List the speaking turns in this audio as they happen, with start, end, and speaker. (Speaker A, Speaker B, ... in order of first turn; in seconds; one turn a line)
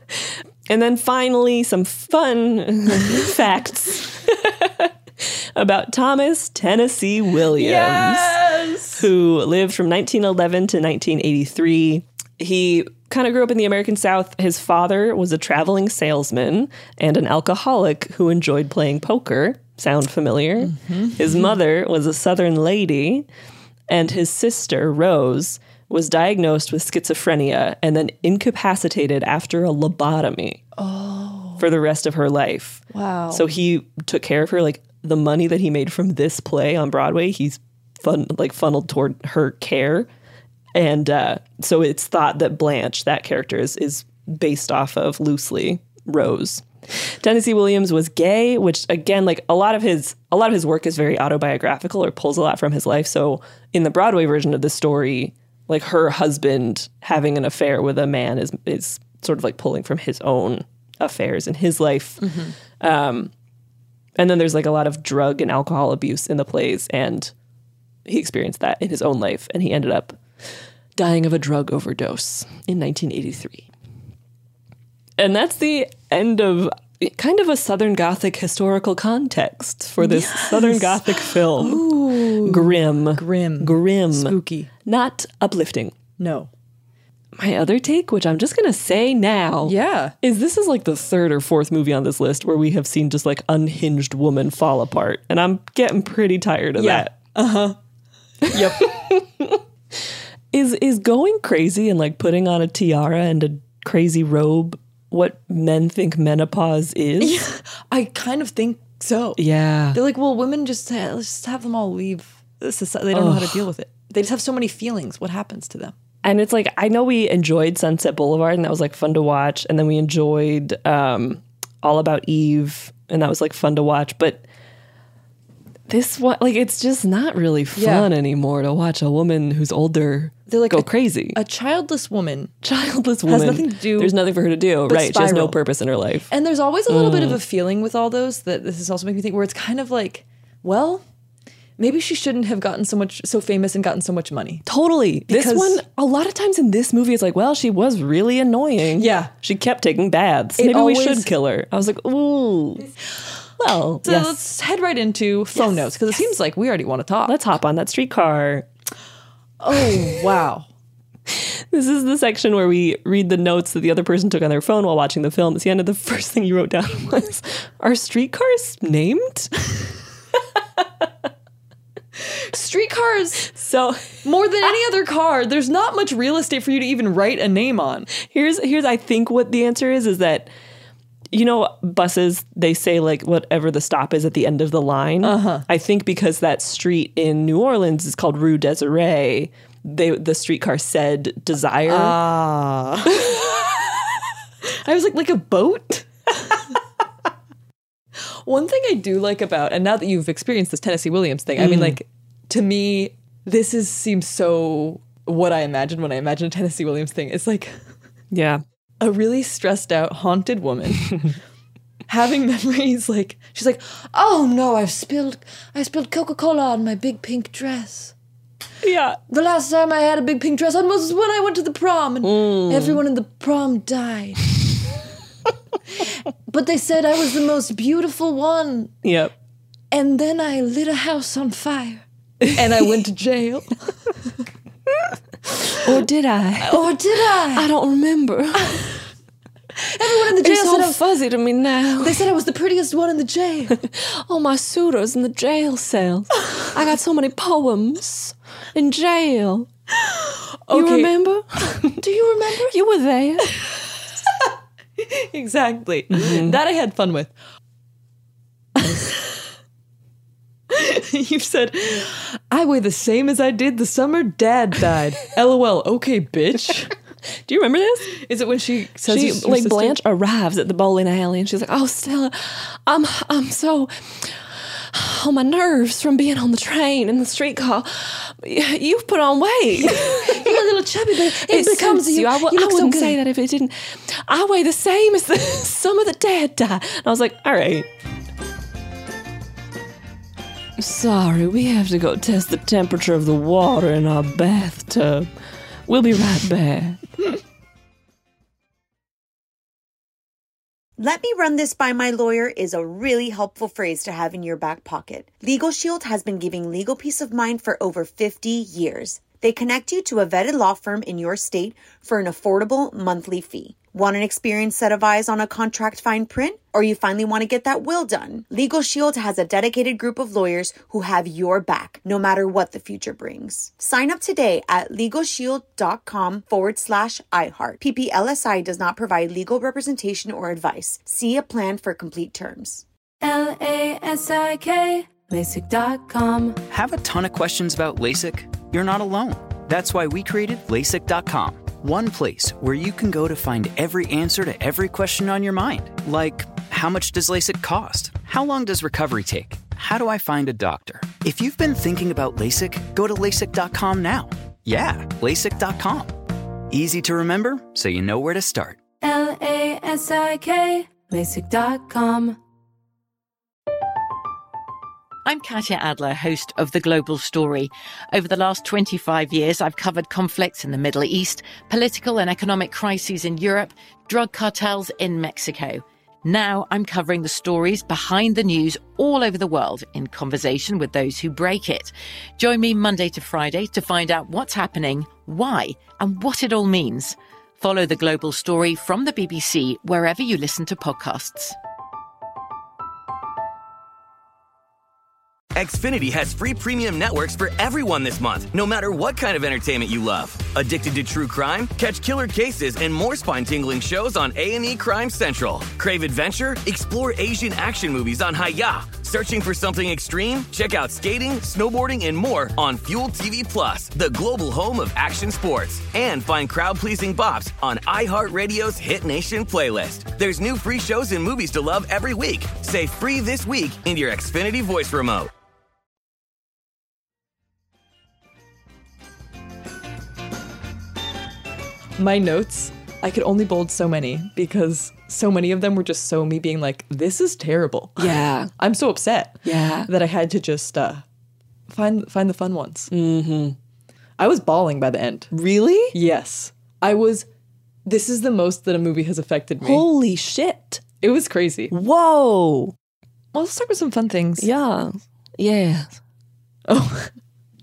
Speaker A: 0.1-8.4
Speaker B: 7.6-9.1
Speaker A: 8.9-23.3
Speaker B: 20.7-21.5
Speaker A: 23.9-30.6
Speaker B: 30.8-31.6
Speaker A: 31.6-40.1
Speaker B: 32.9-33.5
Speaker A: 40.8-63.3
Speaker B: 62.2-62.5
Speaker A: 64.2-67.3
Speaker A: 68.1-70.2
Speaker A: 71.0-73.7
Speaker A: 75.2-81.9
Speaker B: 80.0-84.7
Speaker A: 82.4-86.0
Speaker B: 86.2-86.5
Speaker A: 87.3-97.2
Speaker B: 89.6-90.2
Speaker B: 96.8-97.8
Speaker B: 98.5-99.0
Speaker A: 98.5-99.6
Speaker A: 100.5-107.4
Speaker B: 107.2-109.4
Speaker A: 109.4-110.0
Speaker B: 109.9-116.0
Speaker A: 113.1-113.7
Speaker A: 116.2-124.4
Speaker A: 125.9-131.4
Speaker B: 127.8-128.1
Speaker B: 130.5-132.5
Speaker A: 132.6-136.3
Speaker B: 133.3-134.2
Speaker B: 134.9-135.6
Speaker B: 136.3-141.0
Speaker A: 136.9-137.4
Speaker B: 141.8-144.7
Speaker A: 144.7-152.9
Speaker B: 145.3-145.8
Speaker B: 149.0-149.3
Speaker B: 150.6-151.3
Speaker A: 153.6-154.4
Speaker B: 154.0-157.3
Speaker A: 157.3-158.7
Speaker B: 159.6-160.7
Speaker A: 161.3-169.5
Speaker B: 172.2-173.5
Speaker A: 173.5-174.1
Speaker B: 174.2-178.1
Speaker A: 178.2-180.5
Speaker A: 181.3-192.2
Speaker B: 185.2-185.7
Speaker B: 191.9-194.0
Speaker B: 194.6-196.7
Speaker B: 198.4-207.8
Speaker A: 201.6-202.0
Speaker A: 208.3-208.6
Speaker B: 209.0-211.3
Speaker B: 212.1-218.1
Speaker A: 218.8-219.2
Speaker B: 219.3-224.5
Speaker A: 222.2-223.0
Speaker B: 226.0-228.9
Speaker A: 229.0-229.3
Speaker B: 229.9-234.2
Speaker A: 235.8-236.9
Speaker B: 236.6-237.7
Speaker A: 237.5-238.8
Speaker B: 239.8-241.0
Speaker A: 240.4-242.3
Speaker B: 242.0-243.8
Speaker A: 243.7-249.7
Speaker B: 250.1-251.1
Speaker A: 250.7-253.6
Speaker B: 251.8-252.7
Speaker B: 254.3-257.3
Speaker A: 256.1-256.6
Speaker B: 258.8-259.3
Speaker B: 260.7-266.9
Speaker A: 267.4-268.1
Speaker B: 268.2-270.0
Speaker A: 269.1-280.6
Speaker B: 279.8-283.2
Speaker A: 281.1-287.9
Speaker A: 290.8-295.3
Speaker A: 295.9-297.0
Speaker C: 301.0-332.8
Speaker D: 333.2-336.6
Speaker E: 336.7-358.8
Speaker D: 359.0-362.4
Speaker F: 365.2-391.6
Speaker G: 395.6-425.3
Speaker B: 432.0-441.0
Speaker A: 438.0-438.5
Speaker A: 439.4-439.9
Speaker B: 441.7-442.9
Speaker A: 442.9-443.6
Speaker B: 444.2-445.3
Speaker A: 445.3-446.0
Speaker B: 445.9-447.3
Speaker B: 447.9-449.9
Speaker A: 449.6-450.8
Speaker B: 451.0-451.7
Speaker A: 451.7-452.8
Speaker B: 453.3-454.5
Speaker A: 454.4-456.0
Speaker B: 456.7-457.2